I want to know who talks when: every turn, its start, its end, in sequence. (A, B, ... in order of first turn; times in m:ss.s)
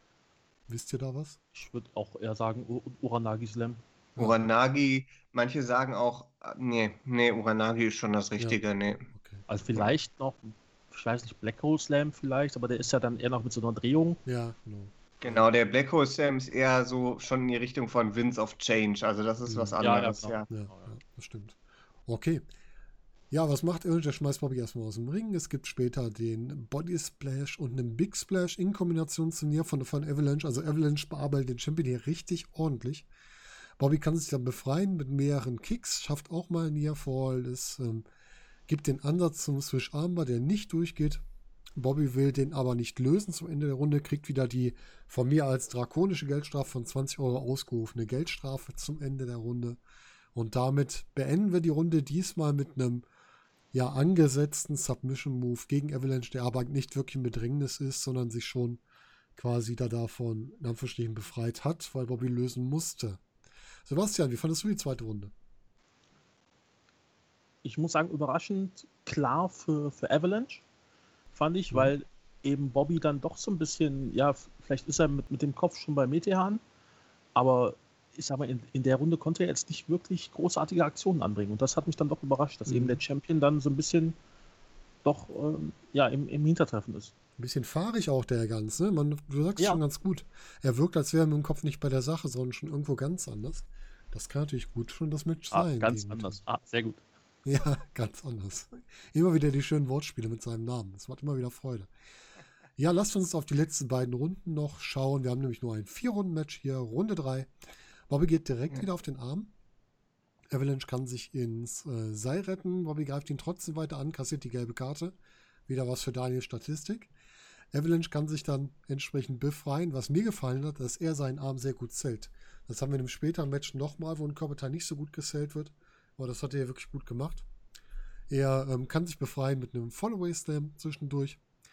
0:00.7-0:01.4 A
0:01.5-0:03.8 B
0:04.2-0:09.1 C
0:09.1-0:09.5 A
0:09.5-0:14.2 B
0:14.3-0:15.4 A
0:15.2-0:20.5 C
0:19.5-0:19.8 A
0:19.8-0:20.9 B
0:20.5-0:22.4 A
0:23.3-0:33.1 A
0:33.8-0:38.0 A
0:38.7-0:41.2 A
0:41.8-0:49.8 A
0:50.3-0:53.1 A
0:53.7-0:58.8 A
0:59.4-1:03.2 A
1:03.9-1:05.3 A
1:07.6-1:10.6 B
1:11.3-1:16.6 B
1:17.4-1:24.2 B
1:22.7-1:23.0 A
1:25.0-1:27.1 B
1:27.4-1:36.4 A
1:35.5-1:37.0 B
1:37.4-1:41.9 A
1:42.8-1:47.5 A
1:48.1-1:49.5 A
1:50.5-1:55.2 A
1:55.7-1:57.1 A
1:57.7-2:07.5 A
2:08.3-2:11.4 A